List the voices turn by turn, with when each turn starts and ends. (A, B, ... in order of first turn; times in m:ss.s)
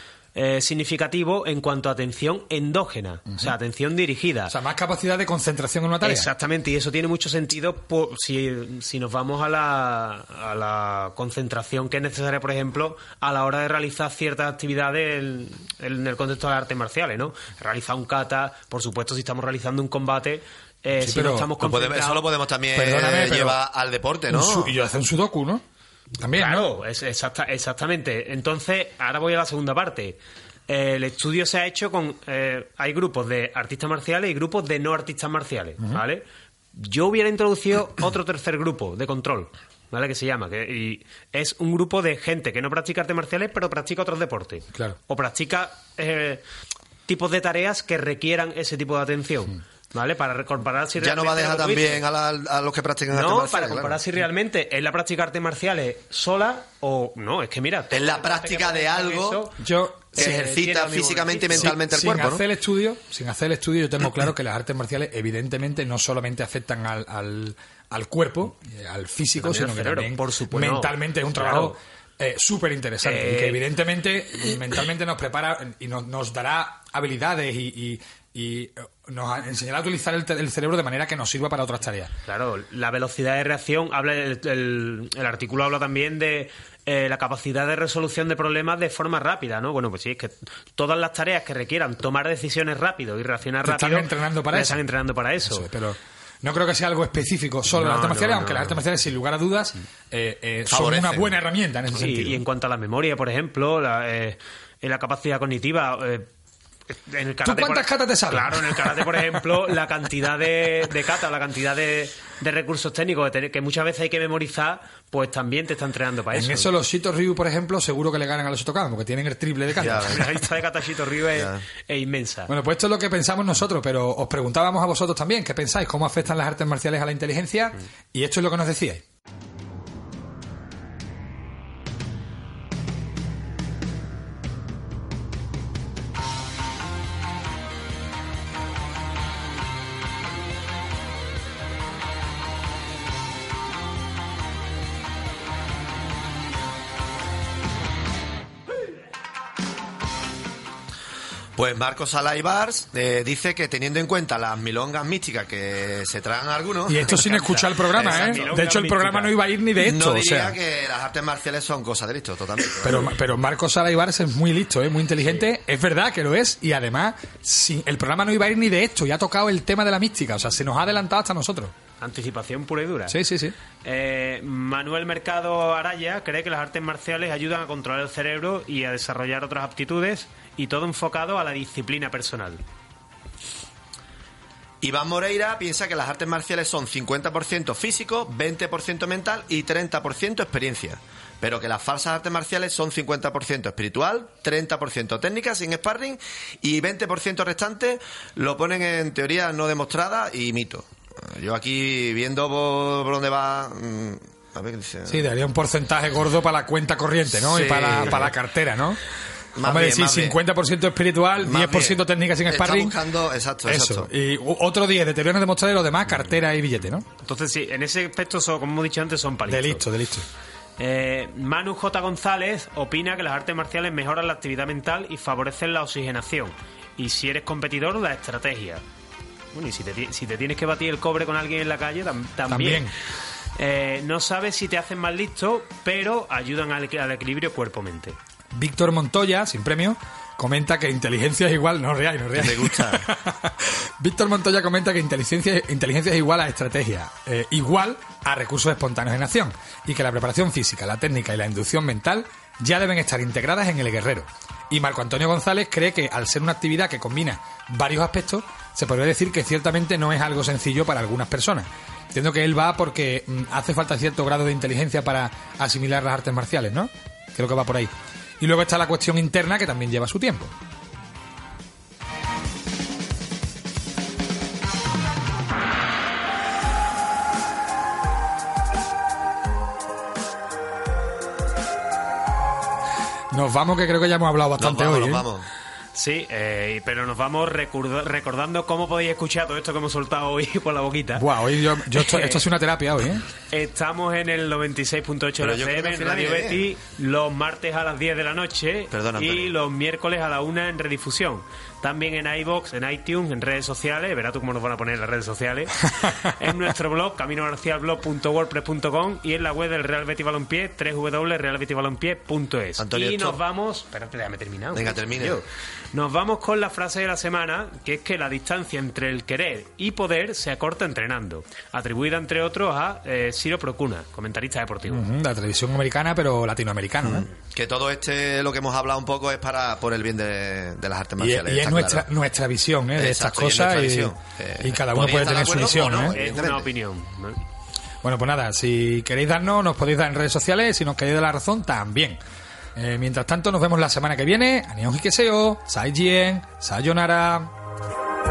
0:00.4-0:04.5 A
0:04.5-0:06.3 B
0:06.0-0:22.2 A
0:21.0-0:21.5 B
0:21.6-0:24.8 C
0:22.7-0:23.6 B
0:24.3-0:25.6 B
0:26.2-0:26.6 B
0:26.4-0:36.2 A
0:36.8-0:46.4 A
0:44.7-0:45.0 B
0:47.1-0:52.0 A
0:51.0-0:54.0 C
0:53.1-0:59.6 A
0:57.9-0:59.5 C
0:59.6-1:00.3 B
1:00.1-1:01.8 A
1:00.2-1:02.4 C
1:01.6-1:22.1 B
1:09.4-1:11.8 A
1:13.0-1:13.6 A
1:22.3-1:35.7 A
1:33.6-1:34.8 B
1:35.4-1:42.4 B
1:37.7-1:38.8 A
1:40.7-1:41.3 C
1:41.9-1:46.3 A
1:46.9-1:56.7 A
1:47.4-1:49.4 B
1:56.3-2:00.2 B
1:59.8-2:00.4 C
2:00.0-2:02.5 A
2:01.4-2:01.6 C
2:02.5-2:09.0 B
2:31.6-2:37.2 C
2:36.9-2:40.6 B
2:37.1-2:39.4 A
2:39.8-2:43.1 C
2:42.8-2:51.7 B
2:52.0-2:53.2 A
2:53.1-2:53.6 B
2:53.8-3:02.6 A
3:04.8-3:25.3 C
3:25.1-3:29.0 B
3:27.4-3:28.3 C
3:29.6-3:30.4 C
3:29.6-3:33.0 B
3:31.4-3:34.1 C
3:33.6-3:37.1 B
3:37.2-3:39.8 A
3:39.5-3:40.3 B
3:40.8-3:48.8 A
3:49.5-3:52.9 A
3:52.5-3:52.9 B
3:53.6-3:58.2 A
3:58.5-4:30.5 B
4:02.4-4:03.0 C
4:43.3-4:45.3 B
4:44.6-4:45.5 C
4:46.0-4:51.2 A
4:51.2-4:53.2 B
4:51.9-4:52.4 A
4:53.5-5:25.0 A
4:55.4-4:56.7 C
4:58.9-4:59.6 C
5:12.8-5:13.4 C
5:14.7-5:15.4 C
5:24.9-5:27.3 B
5:27.0-5:32.1 C
5:31.2-5:36.2 B
5:33.0-5:36.7 C
5:35.7-5:37.4 A
5:38.0-5:42.2 B
5:42.8-5:47.5 B